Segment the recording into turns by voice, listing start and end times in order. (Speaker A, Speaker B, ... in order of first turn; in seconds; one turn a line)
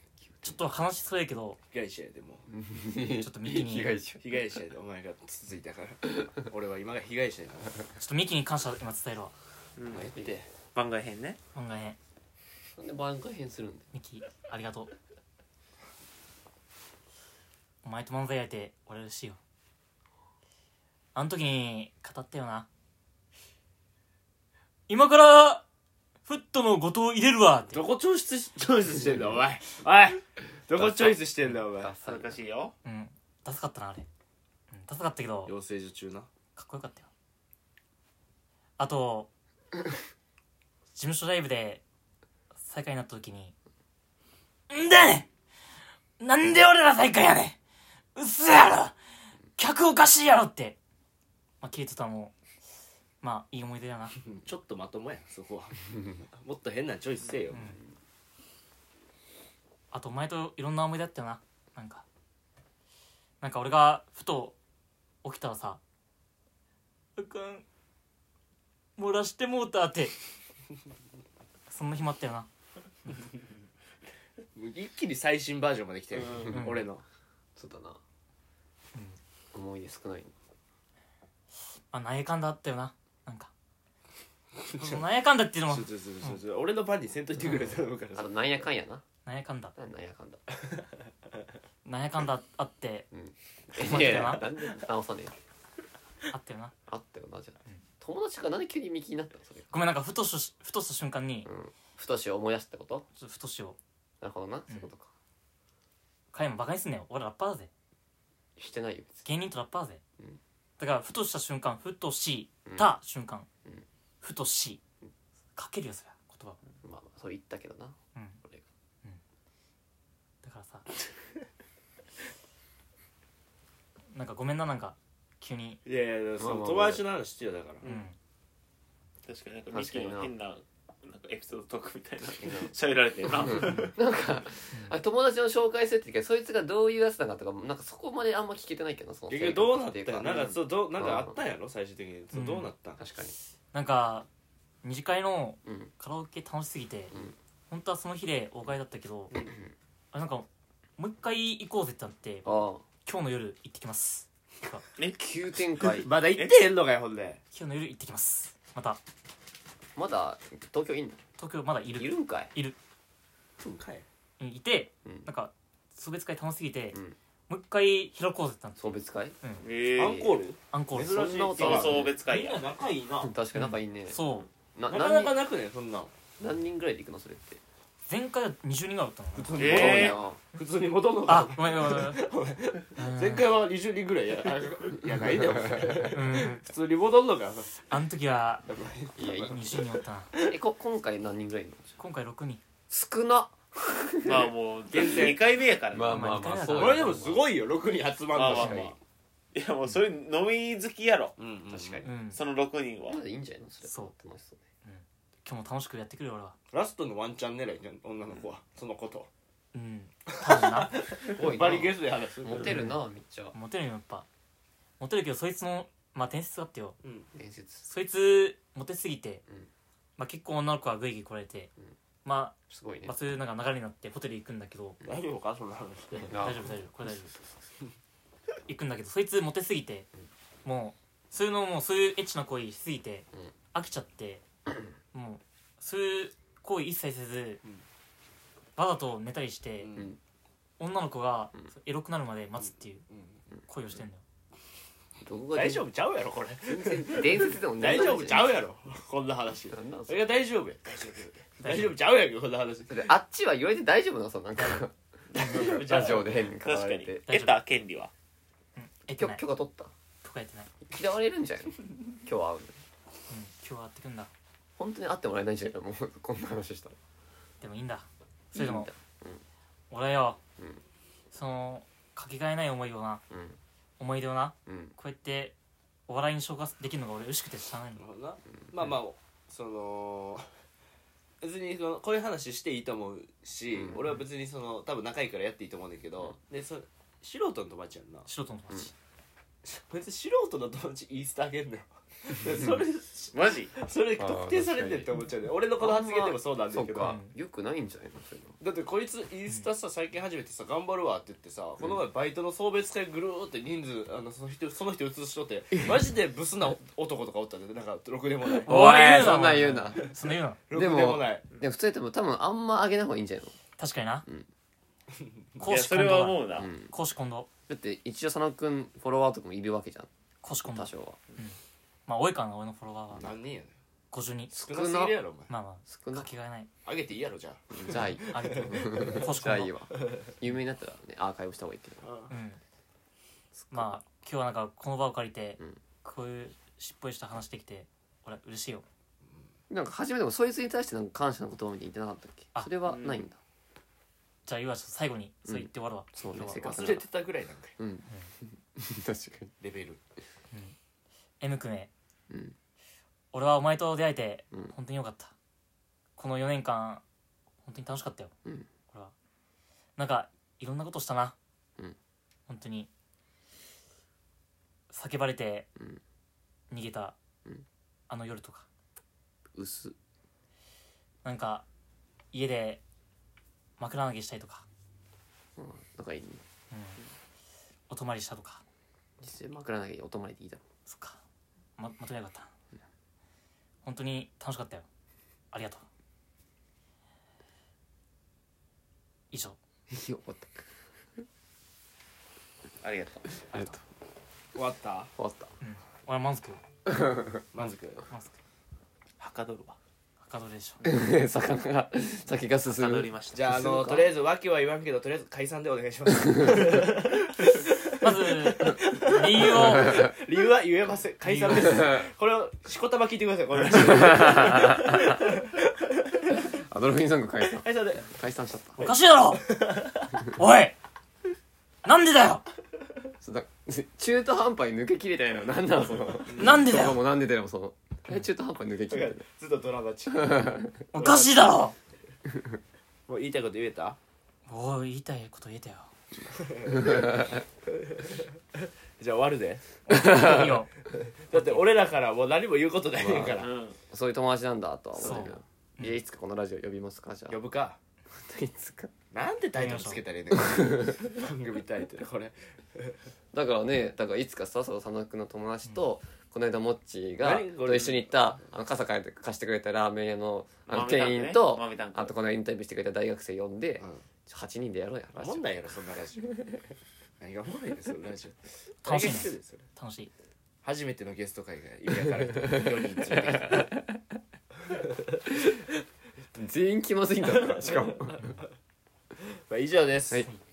Speaker A: 0.4-1.6
Speaker B: 1.7-2.5
Speaker C: 2.5-4.2
Speaker A: 3.2-4.0
Speaker B: 4.2-7.8
Speaker A: 8.0-9.3
Speaker D: 9.8-10.1
Speaker B: 9.9-10.5
Speaker D: 10.7-11.4
Speaker A: 11.5-12.0
Speaker C: 12.7-13.9
Speaker A: 13.9-14.9
Speaker A: 17.8-19.4
Speaker A: 21.1-22.7
Speaker A: 24.9-25.6
Speaker A: 26.2-27.8
Speaker B: 27.7-31.9
Speaker C: 30.7-32.4
Speaker D: 32.0-32.7
Speaker A: 32.8-34.1
Speaker A: 34.7-35.5
Speaker B: 35.5-36.3
Speaker A: 36.5-37.1
Speaker A: 38.8-39.3
Speaker A: 40.9-41.8
Speaker A: 42.5-43.5
Speaker A: 44.7-45.3
Speaker A: 46.2-47.6
Speaker A: 48.1-49.0
Speaker A: 49.6-50.8
Speaker A: 51.6-52.3
Speaker A: 53.2-54.2
Speaker B: 54.3-57.7
Speaker A: 57.5-57.8
Speaker A: 59.9-62.0
Speaker A: 63.4-64.5
Speaker A: 65.2-65.8
Speaker A: 67.2-67.7
Speaker A: 69.0-70.1
Speaker A: 71.7-72.5
Speaker B: 74.5-77.0
Speaker A: 76.5-76.8
Speaker C: 77.5-78.0
Speaker C: 79.5-80.3
Speaker A: 81.9-83.5
Speaker A: 84.7-86.4
Speaker B: 85.7-88.3
Speaker C: 88.1-89.0
Speaker A: 89.2-89.7
Speaker C: 89.8-90.4
Speaker A: 91.8-93.1
Speaker C: 93.1-95.3
Speaker A: 93.8-94.5
Speaker A: 96.3-96.7
Speaker C: 96.9-99.7
Speaker A: 99.7-101.5
Speaker C: 101.4-103.0
Speaker A: 103.2-103.8
Speaker C: 104.2-105.1
Speaker A: 106.3-107.7
Speaker C: 108.6-109.2
Speaker A: 109.2-110.0
Speaker A: 110.8-113.5
Speaker C: 112.7-112.9
Speaker A: 114.2-114.8
Speaker A: 115.5-116.6
Speaker C: 116.8-118.6
Speaker A: 120.4-120.8
Speaker A: 124.1-125.8
Speaker B: 125.8-127.8
Speaker C: 126.4-127.0
Speaker A: 127.8-128.2
Speaker D: 129.2-134.0
Speaker C: 129.7-130.3
Speaker B: 132.4-132.7
Speaker A: 133.6-133.9
Speaker C: 133.7-141.4
Speaker A: 134.7-135.0
Speaker B: 139.3-143.0
Speaker A: 142.3-142.7
Speaker C: 143.0-143.3
Speaker A: 143.7-144.3
Speaker A: 144.8-147.2
Speaker A: 147.7-149.3
Speaker A: 150.1-154.8
Speaker C: 152.4-152.8
Speaker D: 155.0-155.3
Speaker C: 155.2-156.1
Speaker B: 155.8-157.4
Speaker A: 157.5-159.0
Speaker C: 159.9-161.2
Speaker A: 161.4-162.8
Speaker C: 161.9-162.5
Speaker B: 163.6-164.1
Speaker A: 164.4-167.0
Speaker A: 167.5-169.7
Speaker C: 168.8-169.3
Speaker D: 169.6-170.3
Speaker B: 169.9-173.3
Speaker C: 170.0-170.3
Speaker A: 170.7-171.3
Speaker C: 171.1-172.2
Speaker D: 171.6-172.8
Speaker C: 173.2-174.2
Speaker A: 173.5-174.5
Speaker C: 174.7-175.4
Speaker B: 174.9-176.1
Speaker C: 176.4-177.6
Speaker A: 178.1-179.6
Speaker B: 179.3-187.8
Speaker D: 179.5-180.2
Speaker C: 179.6-180.4
Speaker A: 181.3-182.2
Speaker A: 183.0-183.4
Speaker A: 186.1-186.6
Speaker A: 187.9-188.7
Speaker B: 188.7-190.5
Speaker C: 189.2-189.7
Speaker A: 189.5-190.3
Speaker C: 190.3-192.0
Speaker A: 192.0-192.6
Speaker C: 192.9-194.5
Speaker D: 194.2-196.4
Speaker B: 194.9-195.5
Speaker C: 195.9-197.5
Speaker A: 196.1-197.2
Speaker B: 196.6-198.9
Speaker D: 198.3-198.9
Speaker A: 198.4-198.9
Speaker C: 198.5-198.9
Speaker D: 199.5-201.3
Speaker B: 201.4-202.0
Speaker C: 201.7-202.1
Speaker A: 202.0-202.4
Speaker D: 202.3-203.2
Speaker C: 203.1-204.6
Speaker A: 203.8-204.1
Speaker A: 204.8-206.6
Speaker B: 206.7-209.3
Speaker A: 209.7-211.0
Speaker B: 210.3-212.8
Speaker C: 211.2-213.5
Speaker A: 212.6-212.9
Speaker A: 213.5-214.3
Speaker A: 215.0-217.0
Speaker C: 217.3-217.8
Speaker A: 217.8-219.4
Speaker A: 220.2-221.7
Speaker A: 222.2-225.0
Speaker C: 222.7-223.1
Speaker B: 225.0-226.4
Speaker C: 226.3-226.8
Speaker A: 226.3-227.3
Speaker A: 228.7-230.1
Speaker A: 230.6-234.4
Speaker A: 235.1-237.6
Speaker A: 238.8-240.0
Speaker B: 239.8-240.1
Speaker A: 240.8-243.0
Speaker A: 243.7-244.2
Speaker C: 245.2-245.9
Speaker B: 245.5-253.1
Speaker C: 246.6-248.6
Speaker C: 249.7-250.2
Speaker A: 251.6-251.9
Speaker C: 252.9-257.3
Speaker A: 254.6-254.8
Speaker D: 255.3-258.1
Speaker B: 255.3-256.4
Speaker A: 257.3-257.6
Speaker A: 258.8-259.4
Speaker C: 259.1-259.9
Speaker A: 260.2-260.7
Speaker C: 260.8-262.8
Speaker A: 263.3-264.3
Speaker C: 264.8-266.9
Speaker A: 267.6-268.9
Speaker C: 268.5-269.4
Speaker A: 269.9-270.4
Speaker A: 271.3-273.2
Speaker C: 273.3-273.6
Speaker A: 274.0-275.6
Speaker C: 274.6-274.9
Speaker A: 276.1-278.0
Speaker B: 278.0-280.5
Speaker B: 281.4-288.3
Speaker A: 288.3-288.9
Speaker B: 289.6-297.2
Speaker D: 293.3-293.7
Speaker C: 294.2-295.1
Speaker C: 295.8-298.6
Speaker A: 297.0-297.3
Speaker B: 298.6-310.1
Speaker C: 308.6-310.1
Speaker A: 308.6-310.6
Speaker B: 310.7-311.4
Speaker C: 310.7-313.5
Speaker A: 313.8-314.2
Speaker A: 315.6-317.5
Speaker D: 315.6-316.7
Speaker C: 316.6-316.9
Speaker C: 317.7-320.1
Speaker A: 320.4-323.3
Speaker C: 320.6-321.2
Speaker B: 323.2-323.7
Speaker A: 324.1-324.5
Speaker C: 324.5-325.2
Speaker B: 324.6-325.5
Speaker A: 325.5-326.7
Speaker C: 325.9-326.3
Speaker B: 326.8-329.0
Speaker C: 327.7-332.1
Speaker A: 328.3-329.7
Speaker B: 330.0-330.3
Speaker B: 332.0-332.3
Speaker A: 332.3-332.6
Speaker C: 333.5-334.0
Speaker A: 333.7-338.8
Speaker C: 339.7-343.4
Speaker D: 342.8-343.3
Speaker A: 344.4-346.9
Speaker C: 345.4-347.1
Speaker B: 346.5-347.7
Speaker C: 347.8-349.5
Speaker B: 349.6-350.0
Speaker A: 351.4-351.9
Speaker C: 352.3-352.5
Speaker A: 353.3-355.3
Speaker A: 356.2-357.0
Speaker A: 357.6-358.3
Speaker A: 360.0-361.3
Speaker A: 362.5-362.9
Speaker A: 364.9-365.7
Speaker A: 366.7-367.2
Speaker A: 368.1-368.7
Speaker C: 369.5-369.9
Speaker A: 371.2-371.6
Speaker A: 372.3-372.8
Speaker A: 373.8-374.6
Speaker C: 375.6-376.4
Speaker A: 376.7-377.0
Speaker A: 377.9-378.6
Speaker C: 379.2-380.6
Speaker A: 380.9-381.2
Speaker A: 381.8-382.5
Speaker A: 383.8-384.9
Speaker A: 385.5-385.8
Speaker A: 389.3-389.6
Speaker C: 389.9-390.8
Speaker D: 392.8-393.4
Speaker C: 393.4-393.8
Speaker B: 394.5-395.1
Speaker C: 395.2-395.5
Speaker A: 395.6-396.6
Speaker C: 396.9-397.4
Speaker B: 397.5-398.0
Speaker A: 397.6-398.4
Speaker D: 399.2-399.8
Speaker A: 400.2-400.9
Speaker C: 400.8-404.1
Speaker D: 402.7-403.5
Speaker B: 403.3-416.5
Speaker C: 406.4-406.6
Speaker A: 408.0-410.1
Speaker C: 409.6-410.1
Speaker A: 411.2-411.9
Speaker C: 411.7-412.1
Speaker C: 413.8-415.2
Speaker C: 416.4-418.8
Speaker B: 417.5-418.1
Speaker A: 418.8-419.4
Speaker B: 419.4-420.1
Speaker A: 420.3-420.8
Speaker A: 421.8-422.4
Speaker C: 423.2-429.2
Speaker B: 426.3-426.6
Speaker A: 426.3-427.0
Speaker B: 428.9-431.3
Speaker C: 430.1-430.7
Speaker A: 430.9-431.7
Speaker B: 433.1-434.0
Speaker A: 434.5-435.9
Speaker B: 436.4-439.6
Speaker A: 439.9-440.7
Speaker C: 439.9-440.5
Speaker B: 440.9-443.5
Speaker A: 441.3-441.6
Speaker C: 443.0-447.4
Speaker D: 443.4-443.8
Speaker D: 445.0-445.4
Speaker A: 445.0-446.0
Speaker B: 447.3-447.8
Speaker C: 448.1-448.9
Speaker B: 449.1-453.0
Speaker A: 449.5-450.0
Speaker C: 450.3-451.1
Speaker C: 453.3-465.7
Speaker B: 457.2-458.3
Speaker D: 460.7-462.1
Speaker B: 465.2-466.5
Speaker B: 467.2-469.6
Speaker A: 468.8-470.1
Speaker B: 470.6-473.7
Speaker C: 472.4-474.0
Speaker B: 474.8-475.2
Speaker C: 476.3-478.3
Speaker B: 477.3-478.4
Speaker B: 479.2-480.3